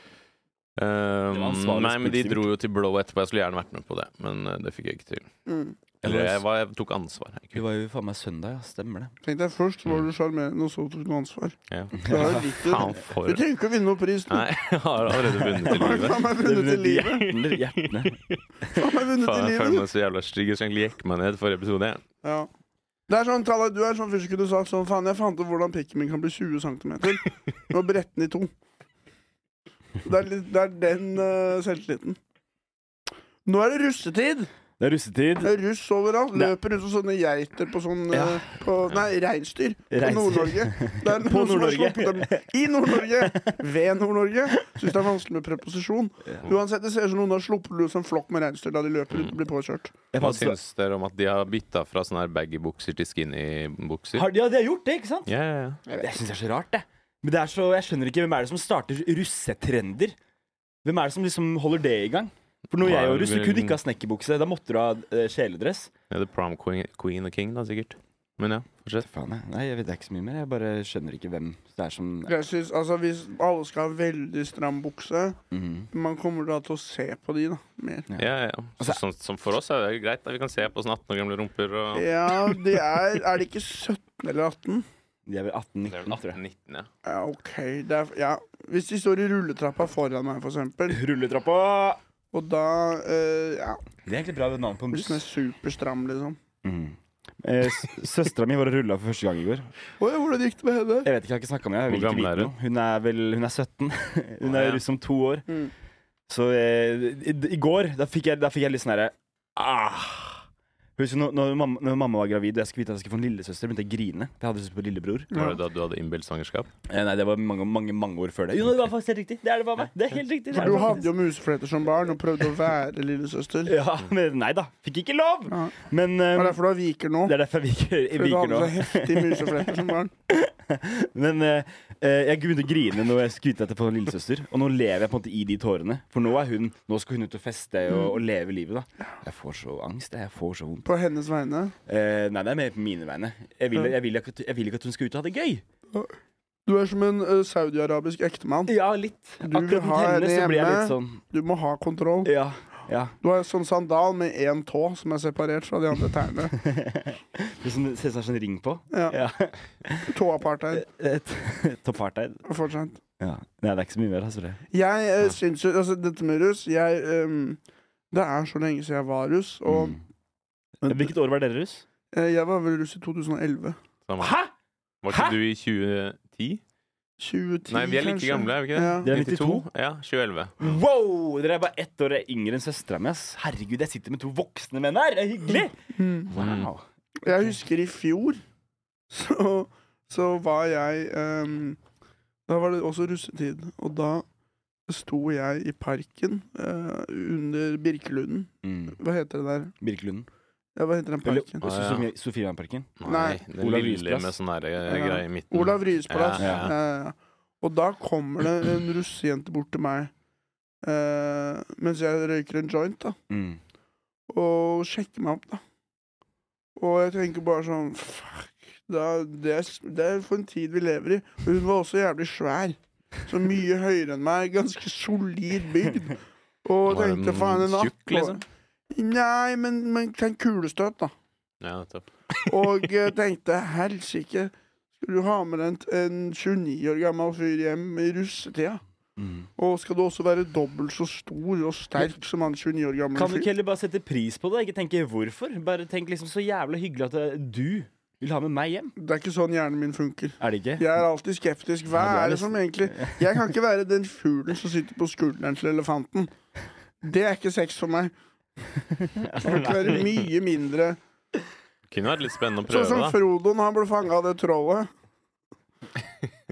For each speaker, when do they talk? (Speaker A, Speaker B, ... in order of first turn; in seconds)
Speaker A: 0.8-5.3, 6.0-7.6, 11.7-13.4, 14.3-16.2, 17.3-18.4, 19.0-22.0, 50.2-54.3, 55.3-55.8, 62.8-63.8, 66.1-69.1, 78.2-82.6, 85.9-86.9, 101.9-102.5, 104.4-104.8, 115.3-116.7, 174.1-174.4, 175.0-176.6, 177.7-180.8, 186.3-186.7, 201.6-202.1, 203.0-206.7, 226.9-228.4, 231.6-232.6, 261.9-263.2
Speaker B: 1.3-2.5, 6.0-6.4, 7.5-9.1, 12.0-12.5, 15.2-18.2, 34.8-35.5, 38.1-38.6, 39.9-43.6, 50.1-50.6, 54.1-55.3, 55.9-60.2, 60.8-65.9, 69.0-72.3, 75.5-75.9, 85.3-86.4, 90.9-92.0, 94.1-95.3, 96.6-99.7, 101.0-105.5, 106.3-110.5, 111.0-115.3, 116.9-121.1, 123.7-126.6, 127.2-140.9, 141.9-145.6, 148.7-151.2, 152.2-153.1, 156.6-160.1, 160.7-162.4, 163.2-164.6, 169.7-170.0, 170.8-171.8, 174.2-174.5, 175.1-175.4, 179.0-179.7, 180.6-185.8, 186.3-186.8, 198.6-199.0, 199.8-200.3, 201.2-204.3, 206.4-206.7, 213.3-213.6, 239.2-239.5, 243.1-248.9, 250.4-250.9, 251.9-253.4, 259.0-260.1
Speaker C: 5.5-5.8, 9.2-14.4, 15.7-17.4, 18.7-19.8, 22.2-22.5, 23.1-28.5, 30.0-32.2, 33.5-34.5, 35.4-50.0, 72.3-75.4, 75.9-78.1, 81.9-84.9, 87.0-91.0, 92.3-93.8, 94.9-96.4, 100.0-101.1, 115.3-115.6, 120.5-123.8, 126.3-127.3, 128.1-130.1, 140.8-141.8, 146.7-148.7, 149.4-152.3, 153.2-156.5, 158.9-159.2, 160.1-160.8, 162.5-163.0, 164.7-167.6, 168.1-170.0, 172.1-173.8, 177.2-179.1, 185.9-186.3, 187.2-188.4, 189.1-191.8, 192.5-194.2, 194.9-199.7, 200.8-201.6, 203.0-203.4, 204.9-210.1, 210.8-213.2, 214.3-215.6, 216.8-228.4, 228.9-231.1, 232.5-238.8, 239.6-243.5, 249.0-256.3, 257.0-258.1, 259.4-261.0, 262.7-264.9